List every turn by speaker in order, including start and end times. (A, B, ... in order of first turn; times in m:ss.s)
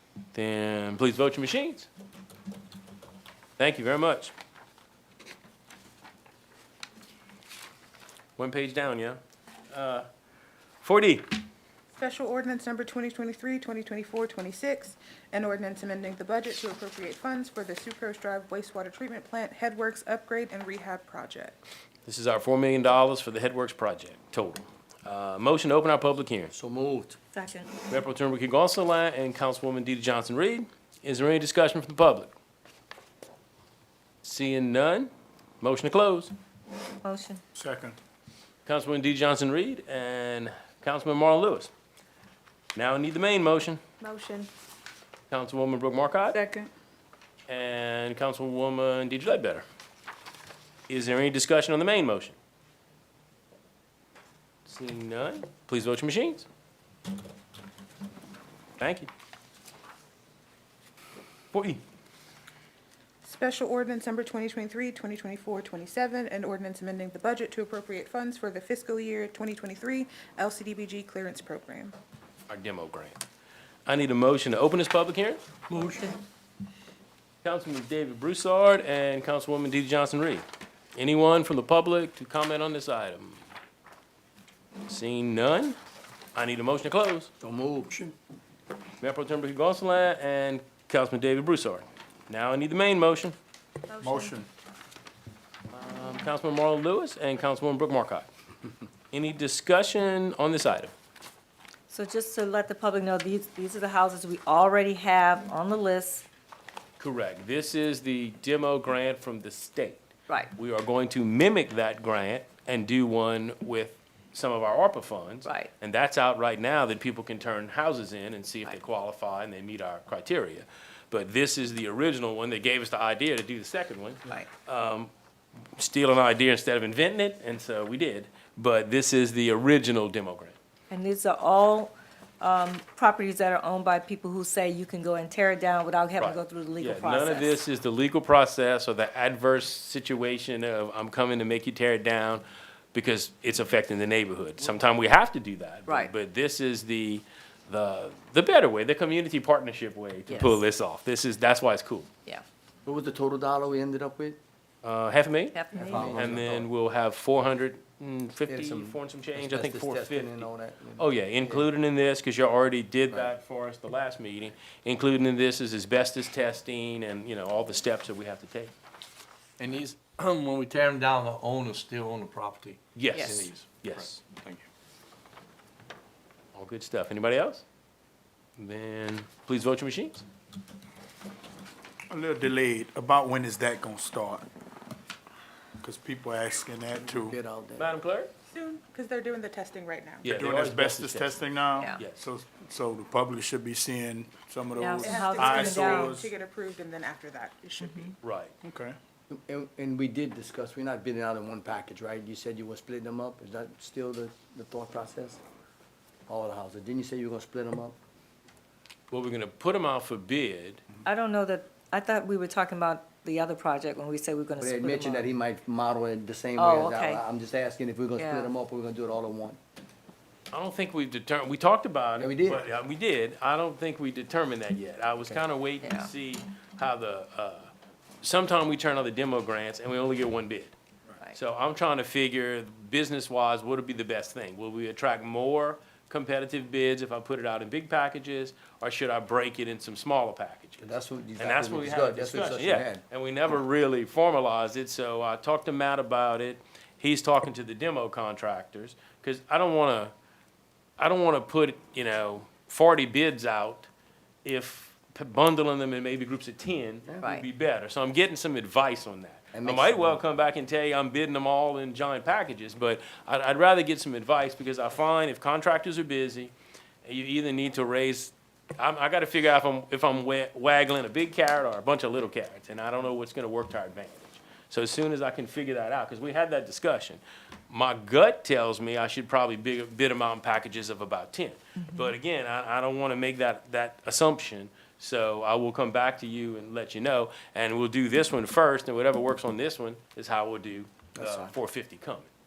0:00.3-0:01.9 A
0:03.6-0:04.3 A
0:08.4-0:09.2 A
0:09.7-0:10.1 A
0:10.8-0:11.3 A
0:11.9-0:21.6 B
0:22.0-0:26.5 A
0:26.5-0:27.2 C
0:27.3-0:27.7 D
0:27.9-0:32.3 A
0:34.2-0:36.3 A
0:37.0-0:37.4 D
0:37.5-0:38.0 E
0:38.6-0:41.7 A
0:42.7-0:43.8 A
0:44.0-0:44.5 B
0:45.3-0:46.4 A
0:46.3-0:46.7 B
0:47.5-0:49.6 A
0:50.9-0:52.4 A
0:54.6-0:56.4 A
0:58.8-0:59.1 A
1:01.5-1:01.8 A
1:03.2-1:12.0 B
1:12.5-1:13.2 A
1:13.8-1:15.4 A
1:17.4-1:23.4 A
1:24.9-1:25.8 A
1:26.3-1:27.3 A
1:27.4-1:28.1 C
1:29.0-1:33.4 A
1:33.9-1:34.3 B
1:34.0-1:34.5 E
1:35.7-1:38.3 A
1:39.1-1:40.9 A
1:41.9-1:46.2 D
1:47.0-2:05.1 A
1:55.4-1:55.7 D
2:05.8-2:10.5 A
2:10.9-2:17.6 D
2:16.2-2:32.1 A
2:30.3-2:30.6 D
2:32.8-2:34.4 C
2:34.8-2:48.7 A
2:35.5-2:36.1 D
2:35.7-2:36.7 C
2:38.5-2:41.6 C
2:49.6-2:52.8 F
2:52.9-2:54.2 A
2:53.1-2:53.5 D
2:53.3-2:53.6 F
2:54.2-2:54.6 F
2:56.5-2:57.6 A
2:58.6-3:00.2 A
3:02.1-3:04.4 E
3:05.8-3:07.4 E
3:07.0-3:07.9 C
3:07.8-3:08.3 A
3:08.5-3:10.2 B
3:10.2-3:11.4 A
3:10.2-3:16.3 E
3:11.9-3:12.2 A
3:14.7-3:16.2 D
3:14.9-3:18.1 B
3:18.2-3:18.5 A
3:18.6-3:18.9 E
3:19.3-3:25.4 C
3:26.3-3:27.9 C
3:29.1-3:30.8 A
3:31.0-3:35.3 D
3:34.6-3:39.6 C
3:36.6-3:37.2 D
3:38.2-3:38.5 D
3:40.5-3:50.7 A
3:42.2-3:42.7 C
3:45.8-3:46.1 D
3:51.3-4:10.1 A
4:00.8-4:03.0 C
4:11.0-4:13.9 A
4:14.4-4:26.5 A
4:19.5-4:20.2 C
4:27.0-4:52.3 A
4:51.1-4:51.5 C